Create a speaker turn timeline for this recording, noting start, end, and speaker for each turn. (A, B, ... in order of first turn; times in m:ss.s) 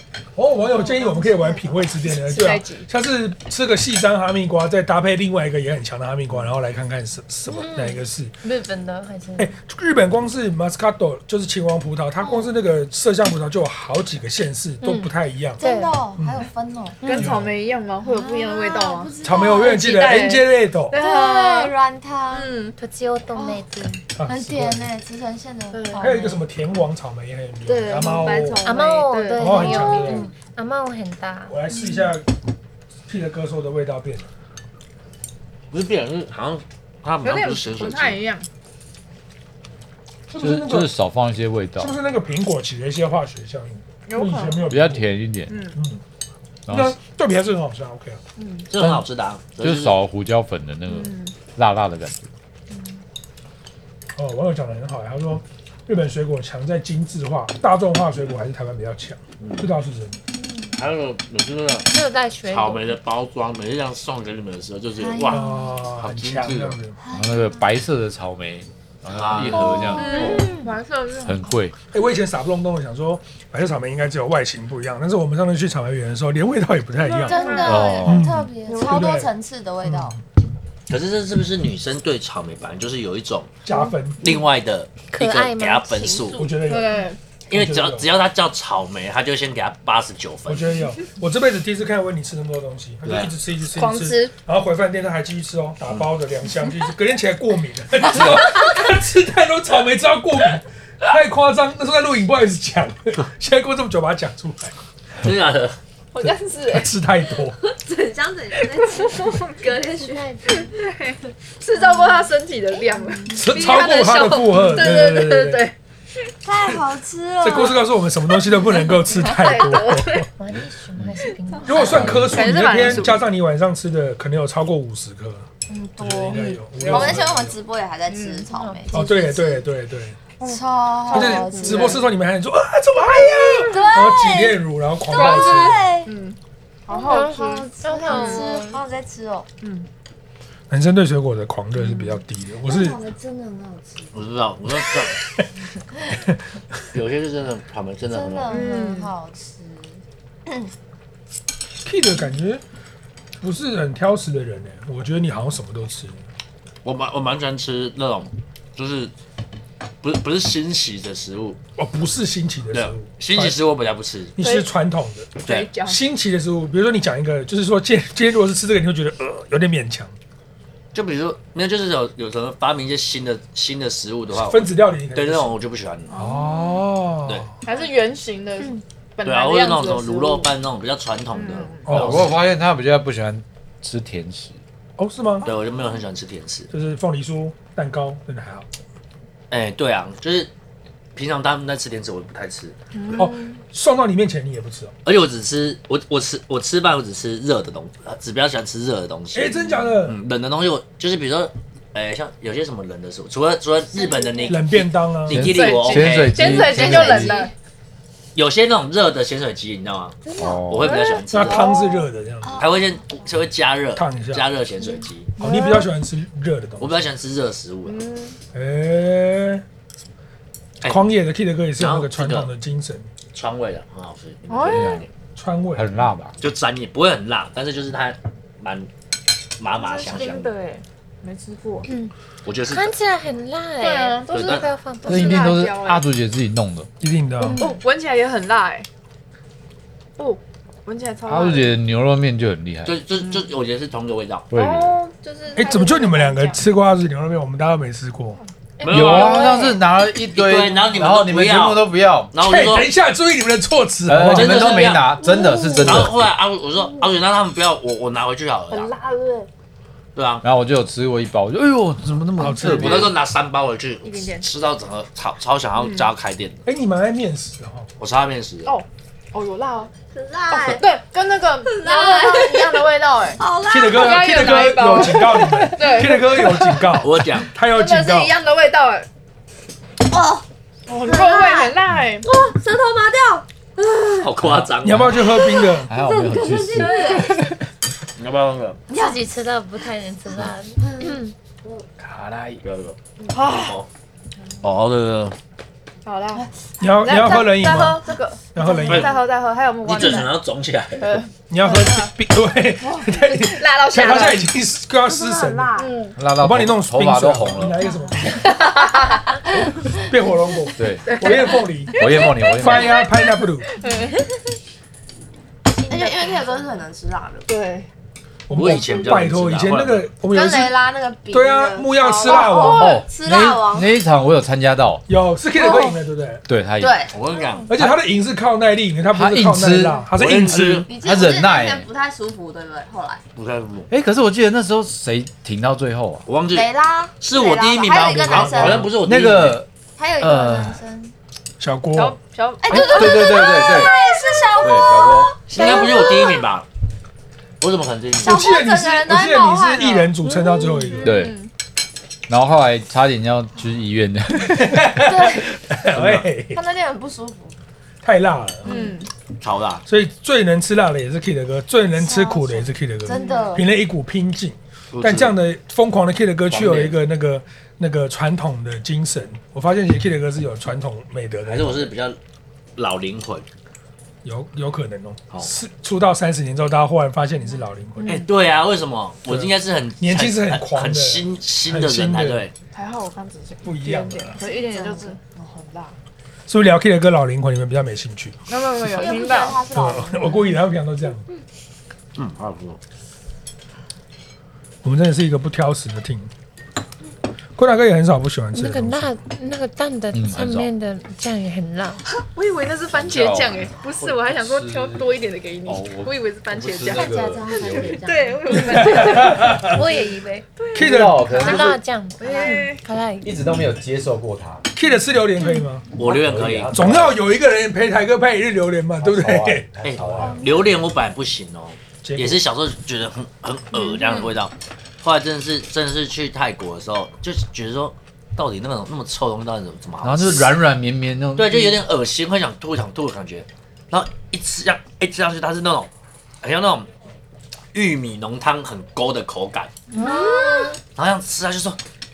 0:00.3-0:08.3 A
0:00.8-0:01.6 B
0:02.2-0:02.9 C
0:07.5-0:09.5 D
0:09.4-0:15.6 A
0:14.8-0:16.0 D
0:15.6-0:17.1 B
0:16.2-0:16.4 A
0:17.0-0:21.7 C
0:17.1-0:17.5 A
0:18.2-0:20.3 B
0:19.2-0:21.0 A
0:21.0-0:22.5 B
0:21.0-0:21.7 D
0:22.3-0:22.8 C
0:22.8-0:24.0 D
0:24.2-0:24.9 A
0:24.2-0:26.4 B
0:25.7-0:26.2 C
0:26.0-0:28.6 A
0:27.6-0:30.2 C
0:28.6-0:31.6 D
0:29.4-0:30.3 A
0:31.5-0:32.3 A
0:31.7-0:32.1 C
0:33.1-0:34.3 A
0:35.7-0:38.2 E
0:37.2-0:38.5 C
0:40.3-0:40.9 A
0:40.4-0:41.9 F
0:41.8-0:45.1 A
0:44.1-0:44.7 C
0:44.7-0:45.6 F
0:45.5-0:45.8 C
0:45.8-0:46.0 A
0:46.7-0:47.0 F
0:46.7-0:48.2 A
0:48.4-0:48.7 C
0:48.7-0:50.0 E
0:48.8-0:49.0 F
0:49.6-0:52.3 F
0:50.9-0:51.3 C
0:54.2-1:00.2 A
0:59.4-0:59.7 E
1:00.4-1:00.7 D
1:00.7-1:01.9 E
1:01.8-1:02.9 D
1:02.5-1:06.8 E
1:05.0-1:05.7 B
1:05.3-1:07.0 A
1:07.0-1:07.6 B
1:07.1-1:10.5 F
1:09.1-1:10.0 E
1:09.4-1:10.8 B
1:09.7-1:11.5 C
1:10.1-1:10.7 D
1:11.2-1:11.7 F
1:11.9-1:19.3 A
1:17.0-1:17.9 C
1:17.1-1:20.2 B
1:17.6-1:18.3 F
1:18.6-1:19.2 C
1:19.8-1:20.2 A
1:20.9-1:23.6 E
1:23.6-1:24.2 A
1:24.2-1:26.4 E
1:25.1-1:26.2 D
1:26.0-1:26.5 B
1:26.4-1:28.1 A
1:26.6-1:27.2 C
1:27.5-1:30.8 E
1:30.4-1:44.7 A
1:33.0-1:33.3 E
1:33.7-1:34.3 C
1:45.2-1:45.8 E
1:46.1-1:46.9 C
1:46.2-1:47.6 A
1:47.6-1:50.7 B
1:48.8-1:49.5 C
1:50.2-1:50.7 D
1:50.4-1:55.7 C
1:53.3-1:55.7 A
1:56.4-1:57.9 B
1:57.4-2:00.3 A
1:58.5-2:00.3 C
2:00.4-2:02.2 D
2:01.6-2:03.3 C
2:01.6-2:05.4 A
2:01.9-2:03.0 F
2:05.7-2:07.2 C
2:05.9-2:09.6 B
2:06.0-2:07.5 A
2:08.1-2:08.5 C
2:08.5-2:08.9 D
2:08.9-2:10.2 A
2:10.4-2:12.1 C
2:10.4-2:12.0 B
2:11.1-2:15.9 A
2:13.2-2:16.1 B
2:15.1-2:18.5 C
2:16.9-2:18.8 D
2:17.1-2:19.5 B
2:19.6-2:19.9 C
2:20.7-2:23.0 A
2:21.8-2:22.2 C
2:22.6-2:24.2 B
2:24.1-2:25.2 E
2:26.9-2:28.6 E
2:28.1-2:30.6 B
2:28.4-2:29.1 C
2:31.8-2:32.6 A
2:33.4-2:36.2 A
2:36.8-2:39.1 E
2:40.0-2:41.6 E
2:41.8-2:43.6 A
2:42.7-2:44.3 E
2:44.4-2:50.1 A
2:44.4-2:44.7 C
2:45.4-2:46.0 C
2:50.9-2:56.2 E
2:54.3-2:55.6 A
2:56.1-2:56.8 C
2:56.2-2:57.5 A
2:57.6-3:00.5 C
2:59.2-3:02.4 E
3:01.3-3:02.0 C
3:01.9-3:02.3 A
3:01.9-3:04.6 F
3:05.0-3:05.5 A
3:05.4-3:06.7 E
3:06.7-3:08.7 A
3:09.5-3:10.5 E
3:11.2-3:12.8 E
3:12.9-3:13.6 C
3:13.1-3:14.9 A
3:15.0-3:19.5 E
3:19.3-3:20.2 A
3:19.6-3:19.9 C
3:20.0-3:27.0 E
3:23.9-3:24.6 B
3:24.5-3:25.5 A
3:25.3-3:27.4 F
3:25.4-3:27.5 C
3:26.8-3:27.4 B
3:28.3-3:31.7 E
3:30.4-3:30.9 F
3:30.8-3:32.0 C
3:31.3-3:32.6 A
3:32.4-3:32.9 B
3:32.6-3:35.3 E
3:34.0-3:34.4 A
3:35.4-3:35.9 C
3:35.4-3:37.1 A
3:36.8-3:38.0 E
3:37.8-3:38.4 C
3:38.5-3:39.6 A
3:40.8-3:41.1 E
3:40.8-3:43.1 A
3:41.8-3:42.5 E
3:43.3-3:45.1 E
3:44.5-3:45.0 C
3:44.7-3:45.0 F
3:45.4-3:46.0 A
3:45.7-3:46.3 F
3:46.4-3:48.9 E
3:49.6-3:50.5 E
3:49.7-3:51.9 C
3:52.4-3:52.9 E
3:52.7-3:55.5 D
3:53.8-3:56.0 C
3:54.3-3:54.6 E
3:55.0-3:56.9 F
3:57.0-3:57.6 A
3:57.4-3:57.8 D
3:57.6-3:58.9 C
4:00.2-4:01.8 C
4:01.3-4:03.0 F
4:02.8-4:04.5 E
4:04.5-4:05.0 F
4:04.5-4:06.6 C
4:05.2-4:06.5 B
4:05.5-4:08.4 A
4:08.8-4:09.6 E
4:08.8-4:12.3 F
4:09.1-4:09.6 C
4:10.3-4:12.9 E
4:12.4-4:15.0 A
4:14.0-4:16.3 F
4:14.2-4:15.2 E
4:15.2-4:15.9 C
4:15.8-4:18.9 E
4:18.7-4:19.5 C
4:20.1-4:20.4 E
4:20.4-4:23.1 F
4:22.4-4:23.1 A
4:22.6-4:26.6 E
4:24.0-4:24.5 C
4:25.8-4:26.1 C
4:26.6-4:27.9 A
4:28.0-4:28.8 E
4:28.6-4:29.9 C
4:30.0-4:30.8 B
4:30.5-4:39.1 C
4:31.7-4:34.6 B
4:33.7-4:38.4 A
4:36.9-4:37.5 E
4:40.1-4:40.4 B
4:40.9-4:42.3 C
4:41.0-4:41.7 B
4:42.2-4:44.3 B
4:44.2-4:45.2 E
4:44.4-4:45.1 F
4:44.8-4:45.9 A
4:45.4-4:47.5 B
4:45.8-4:47.0 F
4:46.7-4:47.5 C
4:48.2-4:48.8 E
4:48.9-4:49.2 B
4:48.9-4:51.3 D
4:50.8-4:51.8 B
4:52.0-4:53.9 E
4:53.3-4:53.8 C
4:54.6-4:55.4 E
4:56.0-5:00.4 C
4:56.8-4:59.1 A
4:58.9-4:59.1 E
4:59.8-5:01.2 E
5:01.0-5:02.1 C
5:01.5-5:05.7 A
5:02.8-5:04.5 C
5:05.0-5:06.0 B
5:05.8-5:06.2 C
5:06.2-5:07.8 F
5:06.3-5:08.4 A
5:08.3-5:09.4 C
5:09.9-5:13.8 A
5:10.8-5:11.1 F
5:11.0-5:14.3 C
5:11.9-5:13.0 F
5:15.7-5:17.5 B
5:15.8-5:16.6 C
5:17.5-5:17.9 C
5:18.5-5:20.8 A
5:18.5-5:20.1 E
5:20.3-5:24.0 B
5:21.3-5:23.0 A
5:22.0-5:23.0 C
5:22.6-5:25.0 F
5:25.1-5:26.4 A
5:25.6-5:26.0 B
5:26.5-5:27.1 F
5:26.8-5:27.5 B
5:27.1-5:27.7 E
5:27.7-5:30.8 A
5:29.1-5:31.9 F
5:30.1-5:30.9 E
5:30.9-5:33.2 B
5:33.4-5:33.9 E
5:33.9-5:36.2 F
5:36.2-5:39.6 E
5:36.5-5:38.9 B
5:38.1-5:38.8 A
5:38.8-5:40.8 F
5:40.0-5:41.1 B
5:41.6-5:42.2 A
5:41.9-5:43.6 C
5:42.6-5:46.4 B
5:42.7-5:43.0 A
5:42.7-5:45.4 F
5:45.5-5:46.7 E
5:45.6-5:46.0 C
5:47.6-5:48.4 E
5:48.2-5:50.1 B
5:48.2-5:51.2 A
5:51.0-5:51.5 C
5:51.0-5:51.4 F
5:52.3-5:54.9 F
5:54.4-5:56.6 A
5:55.0-5:55.5 B
5:56.0-5:56.2 F
5:56.5-5:57.6 B
5:58.0-5:58.8 A
5:58.6-5:59.1 C
5:59.4-5:59.8 E
5:59.8-6:11.9 A
6:01.9-6:03.6 B
6:03.1-6:03.6 C
6:04.9-6:05.3 E
6:06.5-6:07.0 E
6:11.4-6:12.2 E
6:12.8-6:13.4 E
6:14.2-6:18.2 A
6:18.0-6:18.3 C
6:18.0-6:22.5 E
6:19.3-6:22.4 A
6:22.7-6:26.0 C
6:23.6-6:24.4 A
6:24.4-6:25.2 B
6:26.5-6:28.4 A
6:28.5-6:29.6 C
6:28.8-6:30.5 B
6:29.7-6:31.3 A
6:32.2-6:32.8 E
6:34.8-6:36.3 A
6:37.6-6:39.0 A
6:38.5-6:42.0 D
6:40.1-6:40.7 F
6:42.2-6:49.8 C
6:42.9-6:45.0 F
6:45.6-6:48.1 F
6:46.8-6:49.1 B
6:48.5-6:49.8 A
6:49.3-6:50.5 D
6:50.6-6:51.7 C
6:50.7-6:51.7 A
6:50.7-6:51.8 F
6:51.2-6:53.4 D
6:52.2-6:52.8 C
6:52.2-6:52.6 B
6:53.2-6:54.7 F
6:54.7-6:55.9 A
6:55.9-6:57.1 E
6:56.0-6:57.2 F
6:56.7-6:59.7 A
6:59.0-7:00.8 F
6:59.8-7:10.6 E
7:02.0-7:02.4 A
7:03.7-7:04.3 C
7:10.0-7:11.8 F
7:11.4-7:15.9 E
7:16.4-7:16.9 E
7:17.7-7:19.7 E
7:19.9-7:20.8 B
7:19.9-7:20.8 D
7:20.9-7:21.8 E